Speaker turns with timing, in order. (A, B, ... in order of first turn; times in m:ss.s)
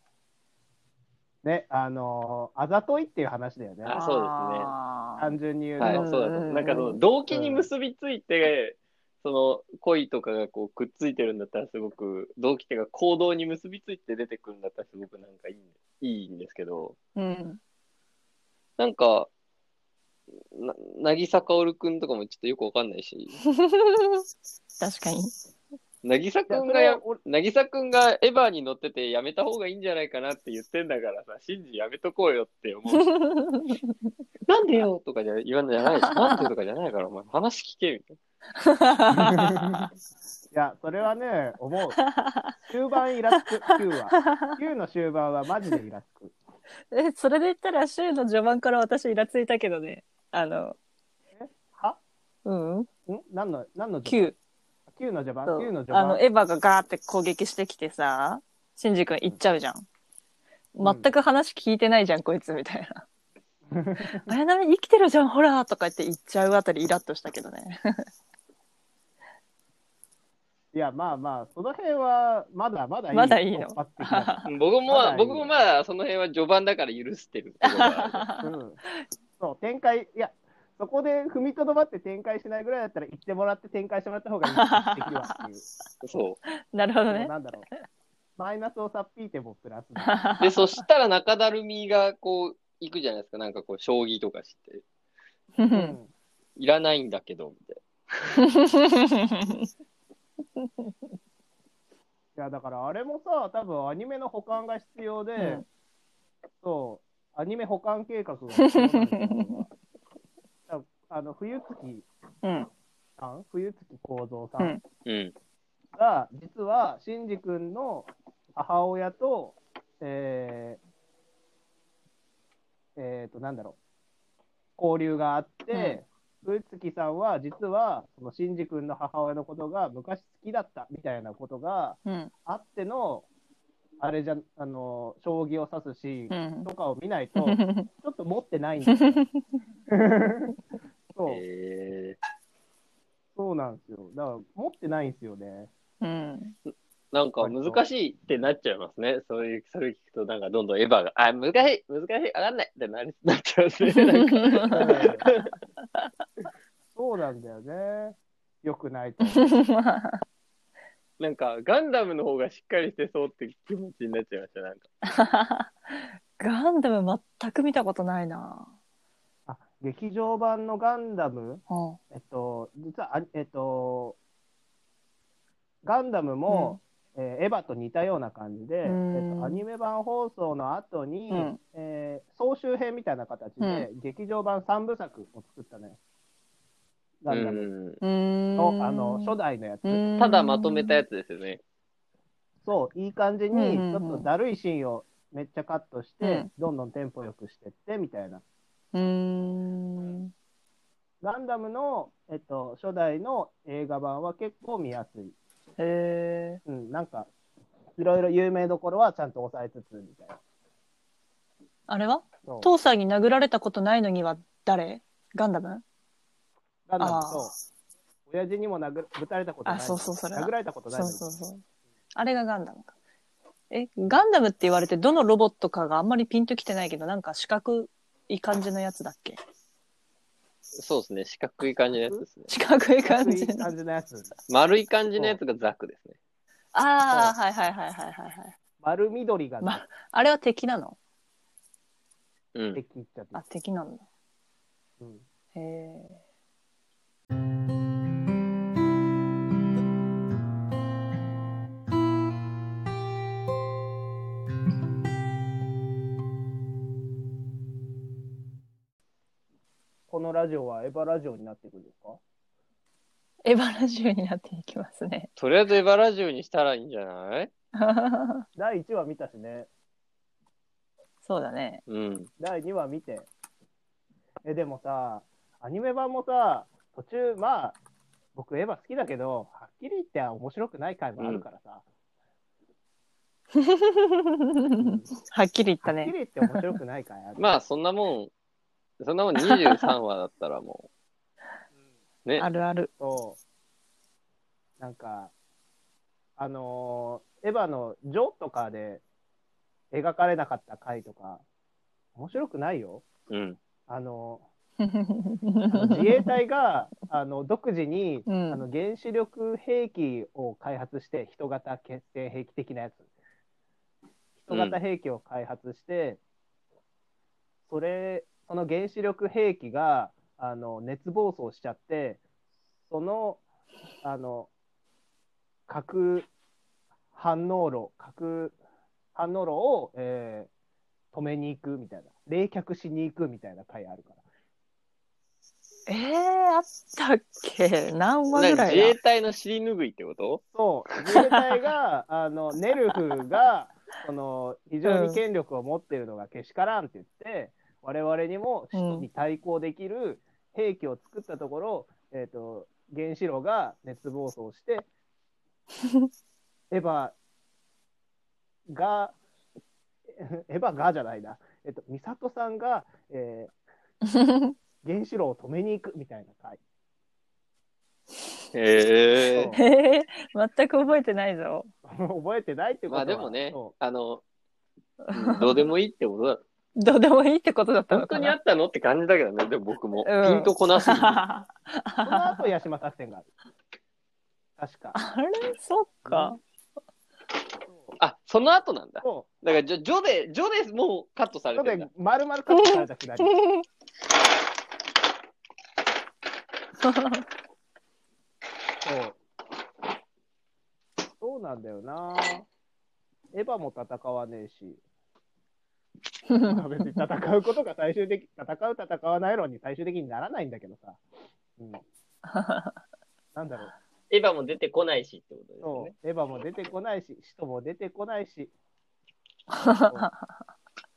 0:01.4-0:04.0 A
0:03.8-0:04.7 B
0:03.9-0:07.0 C
0:05.2-0:06.0 A
0:05.8-0:17.0 B
0:07.3-0:07.7 A
0:17.2-0:17.6 C
0:18.8-0:19.3 B
0:20.5-0:23.4 B
0:23.5-0:24.2 C
0:24.8-0:25.3 C
0:26.0-0:33.1 B
0:26.5-0:27.2 A
0:32.9-0:33.9 C
0:34.5-0:38.2 B
0:36.2-0:36.5 C
0:38.6-0:39.8 C
0:39.1-0:39.9 A
0:40.5-0:42.0 A
0:42.1-0:42.5 C
0:42.6-0:46.4 A
0:44.1-0:44.6 C
0:46.9-0:50.8 C
0:51.4-0:52.0 A
0:52.4-0:52.9 C
0:53.1-0:54.4 A
0:54.1-0:54.4 C
0:54.9-0:56.2 A
0:55.5-0:59.9 C
1:00.8-1:03.0 C
1:00.8-1:01.1 A
1:03.7-1:04.3 A
1:04.2-1:08.0 C
1:10.7-1:15.5 A
1:13.1-1:14.5 C
1:14.5-1:18.3 B
1:17.6-1:18.5 C
1:18.4-1:18.8 A
1:19.4-1:25.6 A
1:24.5-1:25.4 C
1:26.0-1:26.4 B
1:26.7-1:27.3 C
1:27.1-1:27.7 A
1:28.4-1:30.2 A
1:30.1-1:30.6 C
1:30.4-1:34.8 B
1:35.6-1:36.0 C
1:35.7-1:36.1 A
1:36.6-1:38.3 B
1:38.4-1:39.7 C
1:42.4-1:45.6 A
1:45.4-1:45.6 C
1:46.6-1:49.7 A
1:48.6-1:49.6 C
1:50.7-1:52.1 A
1:52.4-1:52.7 C
1:53.2-1:54.8 A
1:55.1-1:55.3 B
1:56.0-2:00.8 A
2:03.0-2:03.8 A
2:04.8-2:13.3 A
2:05.7-2:06.0 C
2:12.1-2:12.3 C
2:14.0-2:19.2 A
2:16.3-2:16.7 C
2:17.4-2:17.9 C
2:18.9-2:19.3 C
2:19.9-2:20.6 A
2:21.1-2:21.4 A
2:21.3-2:22.2 B
2:23.4-2:25.7 A
2:26.0-2:26.6 C
2:27.1-2:35.5 B
2:27.4-2:27.8 A
2:33.9-2:35.3 C
2:34.7-2:35.3 A
2:36.9-2:39.5 A
2:39.3-2:40.2 C
2:41.2-2:44.9 B
2:45.1-2:48.7 C
2:49.5-2:54.2 A
2:51.7-2:52.0 C
2:55.8-3:06.0 A
2:56.5-2:56.8 C
2:58.8-2:59.6 C
3:01.3-3:01.6 C
3:03.6-3:03.9 C
3:07.2-3:07.7 A
3:07.3-3:08.0 B
3:08.0-3:11.0 C
3:08.6-3:10.0 A
3:10.2-3:11.6 B
3:12.6-3:18.4 A
3:13.5-3:14.3 C
3:16.2-3:16.5 C
3:18.9-3:20.3 C
3:21.2-3:25.4 A
3:25.8-3:26.6 C
3:26.7-3:27.3 A
3:28.0-3:30.4 A
3:31.9-3:35.8 C
3:32.4-3:32.7 A
3:36.9-3:37.5 A
3:37.0-3:37.5 C
3:38.3-3:41.2 A
3:39.7-3:41.6 C
3:42.2-3:42.9 C
3:43.7-3:49.4 C
3:50.8-3:52.5 B
3:51.9-3:52.2 A
3:52.5-3:53.7 C
3:53.0-3:54.3 A
3:54.5-3:56.2 B
3:56.7-3:58.6 C
3:58.8-3:59.8 A
3:59.6-4:01.0 C
4:02.6-4:02.8 B
4:02.8-4:03.4 A
4:03.3-4:04.0 C
4:05.5-4:06.2 C
4:20.1-4:22.2 A
4:23.4-4:25.3 C
4:25.4-4:27.5 B
4:27.8-4:28.4 C
4:28.6-4:29.7 A
4:31.2-4:31.8 C
4:31.9-4:32.3 B
4:32.4-4:33.3 A
4:34.4-4:37.8 A
4:38.4-4:41.8 A
4:41.2-4:41.4 B
4:43.6-4:46.7 C
4:44.8-4:45.1 A
4:45.8-4:47.4 A
4:47.4-4:48.3 B
4:49.0-4:50.9 B
4:49.4-4:49.8 C
4:52.4-4:52.9 C
4:53.0-4:53.4 A
4:54.8-4:55.3 A
4:56.4-4:59.0 A
4:59.9-5:01.4 A
5:02.2-5:03.0 A
5:03.3-5:03.6 B
5:03.9-5:04.4 A
5:04.8-5:06.3 C
5:05.7-5:13.0 A
5:08.3-5:08.6 C
5:14.4-5:16.2 A
5:14.5-5:14.8 B
5:17.7-5:22.2 A
5:22.9-5:23.4 A
5:24.0-5:24.5 A
5:25.7-5:26.3 A
5:27.1-5:28.6 A
5:29.2-5:30.5 A
5:31.1-5:34.2 A
5:35.9-5:39.0 C
5:38.3-5:40.4 B
5:40.5-5:54.9 A
5:44.8-5:45.2 C
5:48.7-5:49.1 C
5:56.7-5:57.2 A
5:58.7-5:59.2 A
6:00.1-6:03.5 A
6:04.1-6:04.5 C
6:04.8-6:06.6 A
6:08.5-6:09.5 B
6:09.3-6:09.6 A
6:09.5-6:11.7 C
6:11.8-6:13.7 A
6:12.9-6:14.2 B
6:15.0-6:15.6 C
6:15.1-6:16.4 B
6:16.8-6:18.4 C
6:17.9-6:21.2 B
6:20.0-6:22.4 C
6:22.0-6:23.3 A
6:24.6-6:25.0 A
6:25.0-6:26.4 C
6:26.1-6:26.4 A
6:27.7-6:27.9 A
6:28.0-6:31.9 B
6:29.0-6:29.3 A
6:31.6-6:33.4 A
6:32.5-6:33.6 C
6:36.8-6:37.2 C
6:38.8-6:39.2 A
6:41.2-6:42.5 A
6:43.3-6:44.8 A
6:46.3-6:46.6 C
6:46.4-6:51.0 A
6:51.6-6:51.8 A
6:52.3-6:52.7 C
6:53.3-6:53.7 A
6:54.1-6:55.9 B
6:55.6-6:58.5 A
6:59.5-7:00.2 C